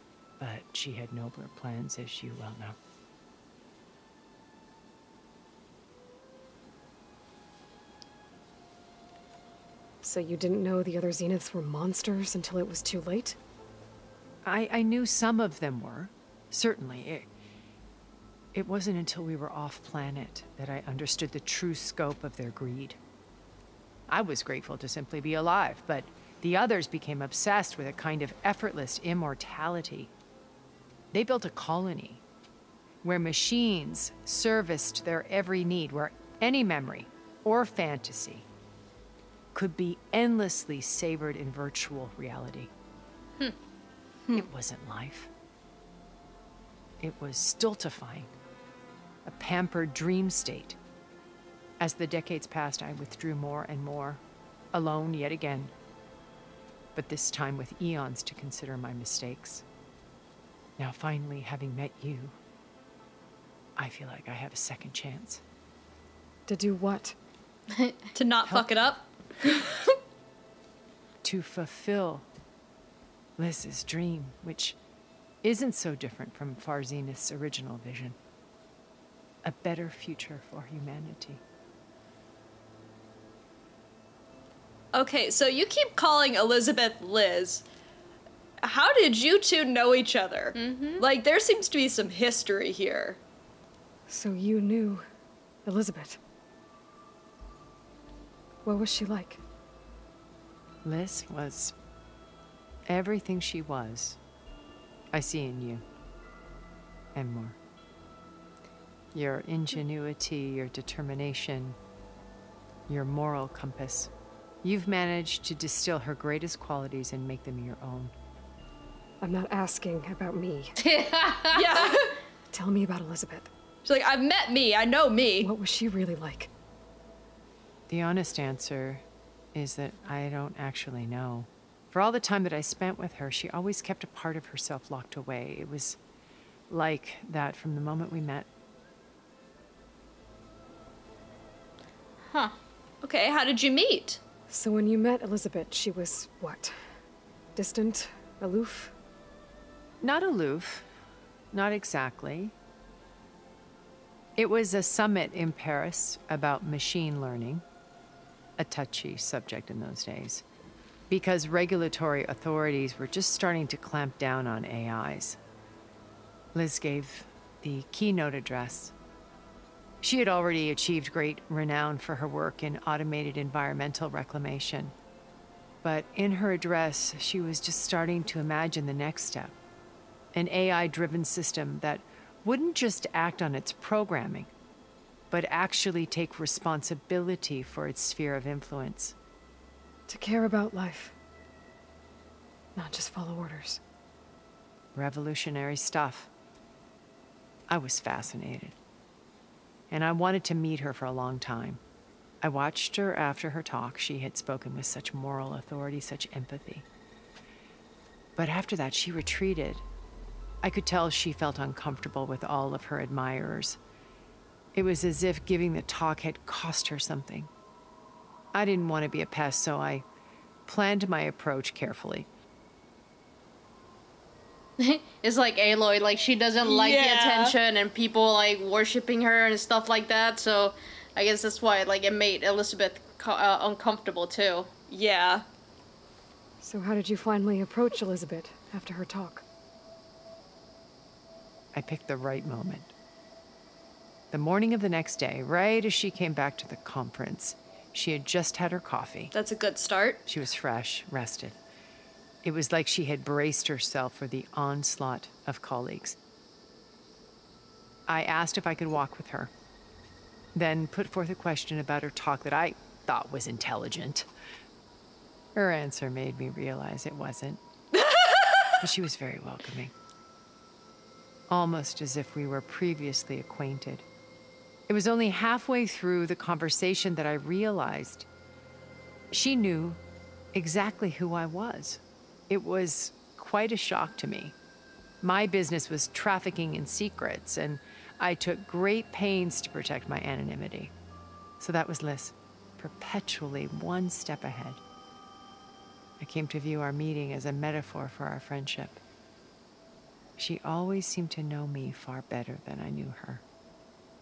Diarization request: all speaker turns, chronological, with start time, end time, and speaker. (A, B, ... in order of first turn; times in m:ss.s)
0:00.4-0:02.8 A
0:10.0-0:13.4 B
0:14.4-0:17.3 A
0:18.5-0:23.0 A
0:24.1-0:30.1 A
0:31.1-0:32.2 A
0:33.0-0:38.5 A
0:39.5-0:42.7 A
0:44.3-0:45.3 A
0:47.0-0:48.3 A
0:49.2-0:50.8 A
0:51.8-0:54.2 A
0:54.7-0:55.7 A
0:57.0-0:59.6 A
1:00.8-1:02.4 A
1:03.8-1:05.4 A
1:06.5-1:07.2 B
1:08.2-1:09.8 C
1:11.2-1:12.3 A
1:13.4-1:14.8 A
1:15.4-1:18.2 A
1:19.4-1:21.4 A
1:24.9-1:27.6 C
1:28.6-1:33.2 C
1:30.6-1:31.0 D
1:34.1-1:35.1 B
1:35.6-1:36.2 B
1:38.6-1:39.4 B
1:40.8-1:41.8 A
1:42.9-1:44.2 A
1:45.1-1:45.8 A
1:47.1-1:47.6 A
1:49.1-1:51.8 A
1:52.9-1:54.1 A
1:54.6-1:58.1 A
1:59.2-2:00.8 B
2:00.8-2:01.9 D
2:01.5-2:02.2 C
2:02.5-2:03.5 B
2:03.8-2:05.5 C
2:05.4-2:06.5 B
2:07.9-2:16.0 A
2:16.7-2:18.5 A
2:23.0-2:24.2 C
2:24.5-2:26.7 B
2:27.6-2:28.9 B
2:30.0-2:30.9 A
2:31.5-2:32.6 A
2:34.4-2:37.6 A
2:38.6-2:40.4 A
2:41.1-2:45.4 A
2:46.5-2:48.9 A
2:50.0-2:54.9 A
2:55.8-2:59.6 A
3:00.3-3:04.5 A
3:05.3-3:09.2 A
3:10.1-3:11.2 B
3:12.8-3:13.8 B
3:15.0-3:16.3 A
3:17.7-3:18.8 A
3:19.9-3:21.8 A
3:22.4-3:26.8 A
3:28.4-3:29.8 A
3:30.6-3:33.8 A
3:34.7-3:37.5 A
3:38.5-3:40.0 A
3:40.7-3:42.3 A
3:44.8-3:54.7 D
3:46.6-3:47.6 C
3:54.9-3:55.4 C
3:56.6-3:59.4 B
4:01.7-4:02.9 A
4:04.3-4:09.3 A
4:09.3-4:10.2 C
4:10.3-4:11.6 A
4:12.4-4:16.2 A
4:18.1-4:19.5 A
4:20.6-4:24.3 A
4:25.6-4:27.6 A
4:28.0-4:28.8 C
4:28.8-4:29.9 A
4:31.5-4:34.0 A
4:34.9-4:38.3 A
4:39.3-4:40.0 A
4:40.5-4:44.6 A
4:45.2-4:50.9 A
4:51.6-4:54.8 A
4:56.2-4:59.0 A
5:00.4-5:03.4 A